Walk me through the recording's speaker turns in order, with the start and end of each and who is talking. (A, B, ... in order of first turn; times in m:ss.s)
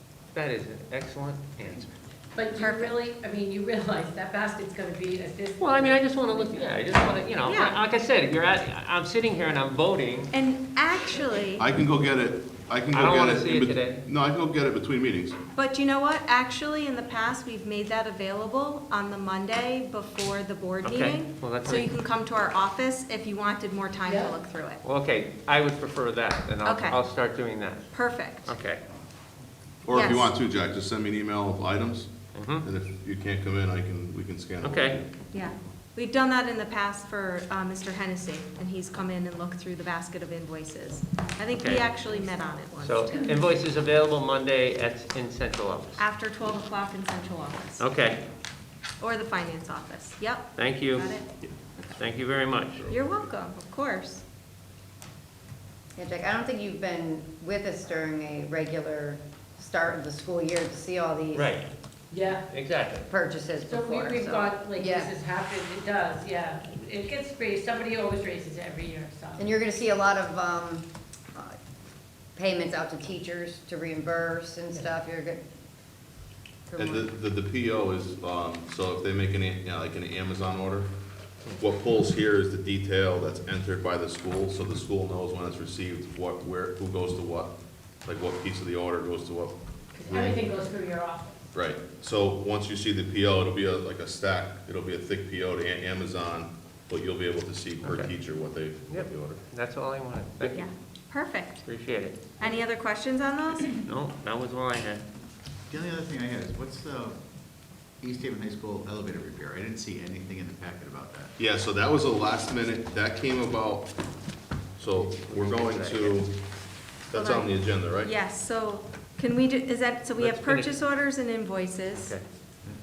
0:00.3-0:01.9 A
0:02.4-0:06.0 B
0:02.6-0:03.0 C
0:05.6-0:10.3 A
0:07.4-0:07.8 C
0:10.3-0:11.7 C
0:11.6-0:15.4 D
0:12.9-0:14.1 A
0:15.5-0:24.8 C
0:20.8-0:21.9 A
0:24.1-0:24.4 B
0:24.8-0:27.9 A
0:26.6-0:27.0 C
0:27.9-0:28.6 C
0:28.4-0:28.8 A
0:29.8-0:35.1 D
0:29.9-0:30.3 C
0:32.3-0:32.6 A
0:34.6-0:35.0 A
0:35.3-0:43.3 C
0:41.6-0:41.9 A
0:42.8-0:46.0 A
0:46.0-0:47.9 C
0:47.8-0:48.2 A
0:49.0-0:52.0 C
0:50.5-0:51.1 A
0:52.0-0:52.8 A
0:52.7-0:53.1 D
0:52.9-0:54.2 C
0:56.0-1:01.5 E
1:01.3-1:01.6 A
1:02.1-1:02.4 B
1:02.5-1:03.1 A
1:03.1-1:05.1 E
1:03.6-1:09.5 B
1:09.4-1:11.6 E
1:12.4-1:15.4 E
1:16.7-1:17.1 E
1:16.8-1:20.9 D
1:21.5-1:30.4 D
1:29.9-1:31.4 B
1:31.5-1:39.4 D
1:37.8-1:38.1 A
1:38.9-1:40.6 A
1:40.4-1:41.6 C
1:41.6-1:42.3 A
1:42.4-1:43.7 C
1:43.7-1:45.0 A
1:45.7-1:47.2 F
1:48.0-1:51.3 F
1:51.4-1:53.9 D
1:54.8-1:56.3 D
1:55.2-1:56.2 A
1:57.1-1:58.1 D
1:57.1-2:02.1 C
2:00.2-2:00.7 A
2:02.0-2:02.2 A